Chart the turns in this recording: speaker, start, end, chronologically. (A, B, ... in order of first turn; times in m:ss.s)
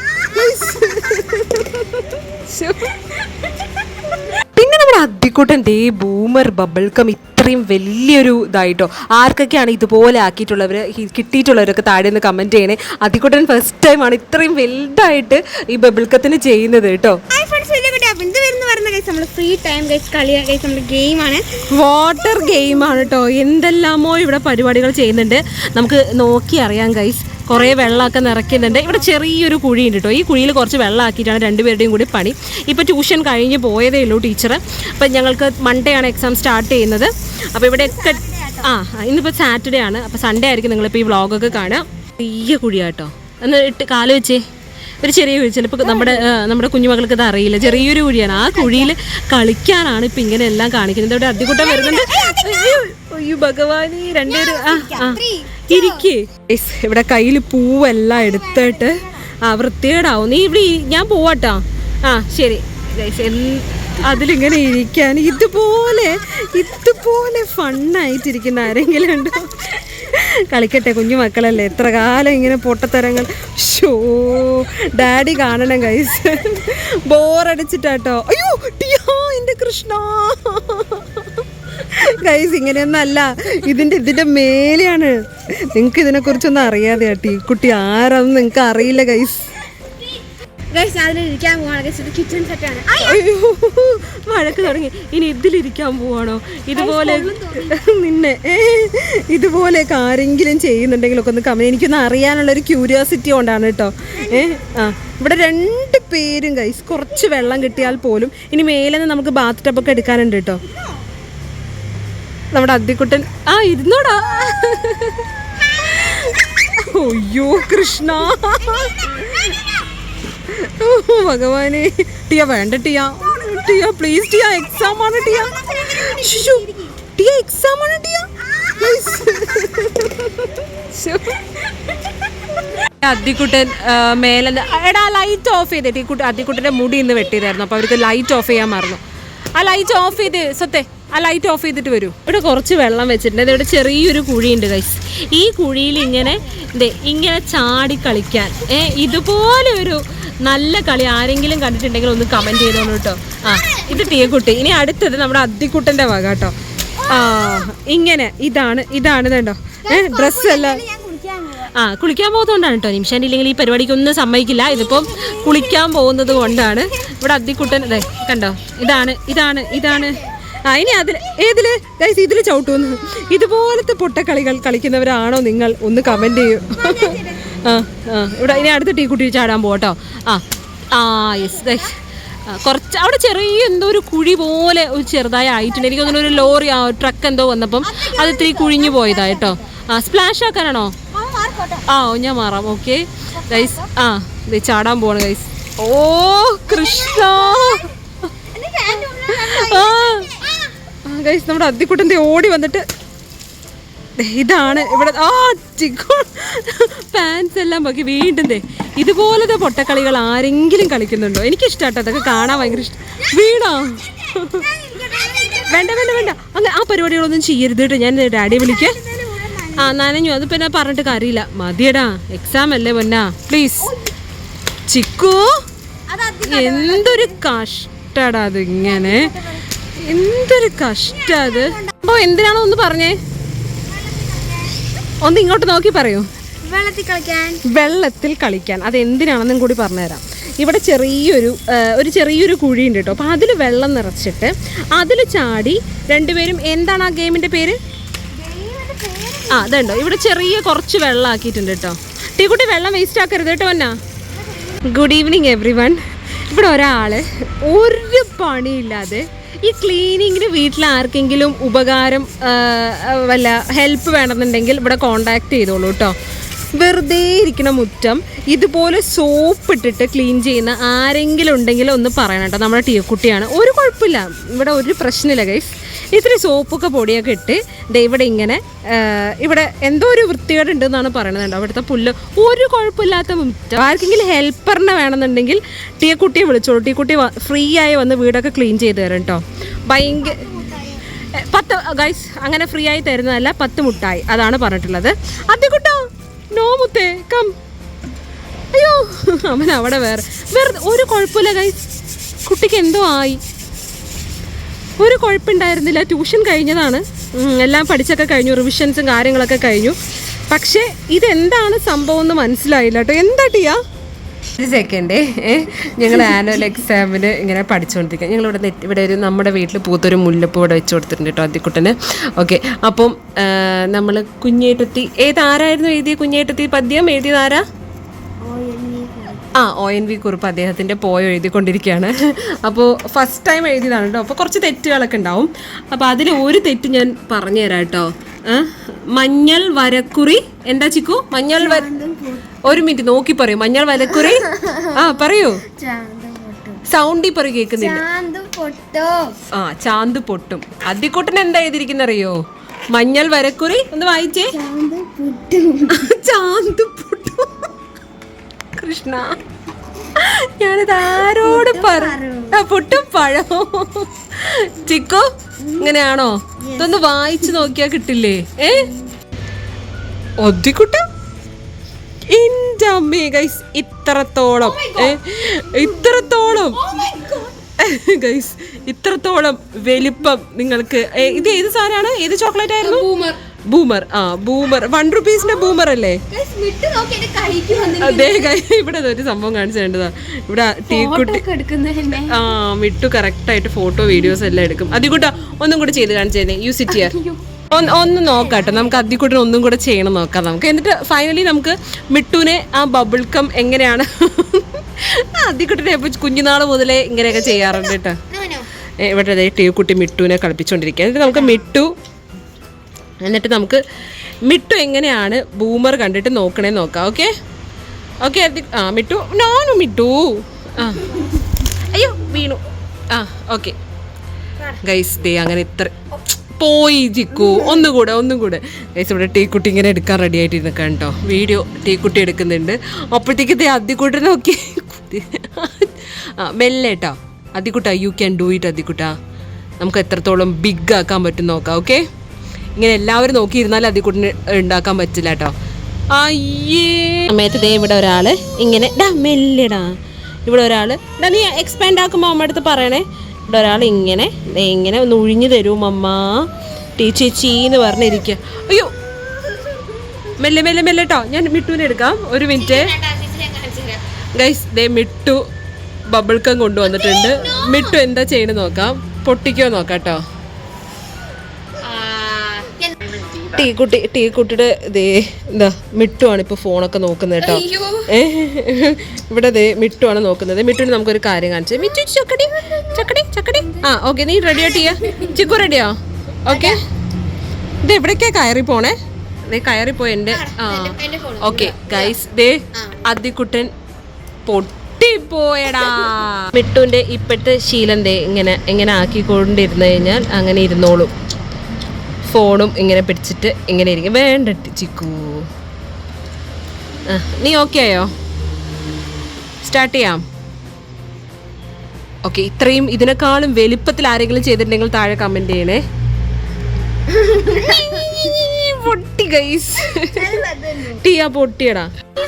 0:00.2-0:03.3 A
0:04.6-0:17.2 A
0:17.3-0:21.5 B
0:21.7-0:44.4 A
0:22.4-0:23.0 B
0:27.5-0:29.0 B
0:37.8-0:38.7 B
0:45.0-1:21.3 A
0:45.9-0:46.2 B
0:48.3-0:48.9 B
0:51.4-0:52.8 B
0:54.3-0:56.0 B
0:58.2-0:59.2 B
1:21.8-1:25.2 A
1:25.7-1:29.5 A
1:30.7-1:33.2 B
1:33.0-1:50.6 A
1:36.7-1:37.8 B
1:44.2-1:44.5 B
1:52.5-1:59.6 A
1:58.6-1:59.8 B
2:00.4-2:11.9 A
2:04.9-2:06.9 B
2:08.8-2:09.0 B
2:12.8-2:19.0 A
2:19.6-2:40.8 A
2:33.5-2:34.1 B
2:37.0-2:37.5 B
2:39.8-2:41.7 B
2:41.7-3:01.9 A
2:44.9-2:45.6 B
2:49.9-2:50.3 B
2:56.7-2:57.6 B
3:02.5-3:11.0 A
3:05.9-3:06.4 B
3:07.8-3:09.7 B
3:11.1-3:11.9 B
3:11.9-3:17.9 A
3:13.4-3:13.9 B
3:16.7-3:17.9 B
3:18.5-3:20.7 B
3:19.3-3:20.3 A
3:21.1-3:22.8 A
3:24.2-3:34.7 A
3:34.3-3:36.3 B
3:35.6-3:39.0 A
3:38.5-3:39.9 B
3:39.8-3:43.9 A
3:43.8-3:44.1 B
3:44.9-3:45.6 A
3:46.1-3:47.4 B
3:46.4-3:49.3 A
3:48.8-3:49.7 B
3:50.0-3:53.2 A
3:51.3-3:52.0 B
3:53.8-3:54.9 B
3:55.2-3:56.3 A
3:56.6-3:57.6 B
3:57.6-4:07.8 A
4:08.3-4:10.2 B
4:09.5-4:14.0 A
4:14.5-4:14.8 B
4:14.8-4:26.2 A
4:26.8-4:50.5 A
4:50.1-4:51.0 B
4:51.4-4:57.5 A
4:58.7-5:01.8 A
5:02.5-5:03.4 A
5:05.0-5:10.0 A
5:10.5-5:13.8 A
5:14.6-5:27.6 A
5:28.4-5:29.5 B
5:29.5-5:41.9 A
5:41.5-5:42.6 B
5:42.6-5:45.7 A
5:44.2-5:46.8 B
5:46.9-5:48.0 A
5:47.8-5:49.4 B
5:49.5-5:52.4 A
5:52.9-5:54.6 A
5:54.5-5:56.1 B
5:55.9-5:57.7 A
5:58.8-5:59.4 A
6:00.1-6:08.9 A
6:01.3-6:02.6 B
6:05.6-6:06.0 B
6:06.7-6:07.0 B
6:10.4-6:11.0 A
6:12.3-6:16.8 A
6:14.6-6:17.5 B
6:17.8-6:23.1 A
6:22.8-6:23.4 B
6:23.7-6:26.2 A
6:26.3-6:28.5 B
6:28.0-6:31.4 A
6:30.9-6:32.5 B
6:32.2-6:37.2 A
6:36.9-6:37.4 B
6:37.7-6:48.2 A
6:38.2-6:39.1 B
6:47.5-6:48.7 B
6:49.0-6:51.9 A
6:53.2-6:53.8 A
6:54.4-6:57.3 A
6:58.2-7:03.8 A
7:04.8-7:19.2 A
7:19.8-7:22.0 A
7:22.8-7:25.5 A
7:26.1-7:29.9 A
7:30.5-7:39.0 A
7:40.4-7:43.0 A
7:42.6-7:44.0 B
7:44.4-7:45.4 A
7:46.1-7:50.2 A
7:47.3-7:47.9 B
7:51.8-7:52.9 B
7:53.4-8:06.8 A
7:57.4-7:58.1 B
8:02.6-8:02.9 B
8:04.5-8:05.3 B
8:06.5-8:06.8 B
8:07.8-8:09.0 A
8:09.5-8:13.7 A
8:10.3-8:12.1 B
8:14.5-8:21.1 A
8:22.3-8:25.5 A
8:27.1-8:28.1 A
8:29.6-8:30.2 A
8:32.2-8:35.8 A
8:37.1-8:41.9 A
8:37.3-8:38.1 B
8:40.0-8:41.0 B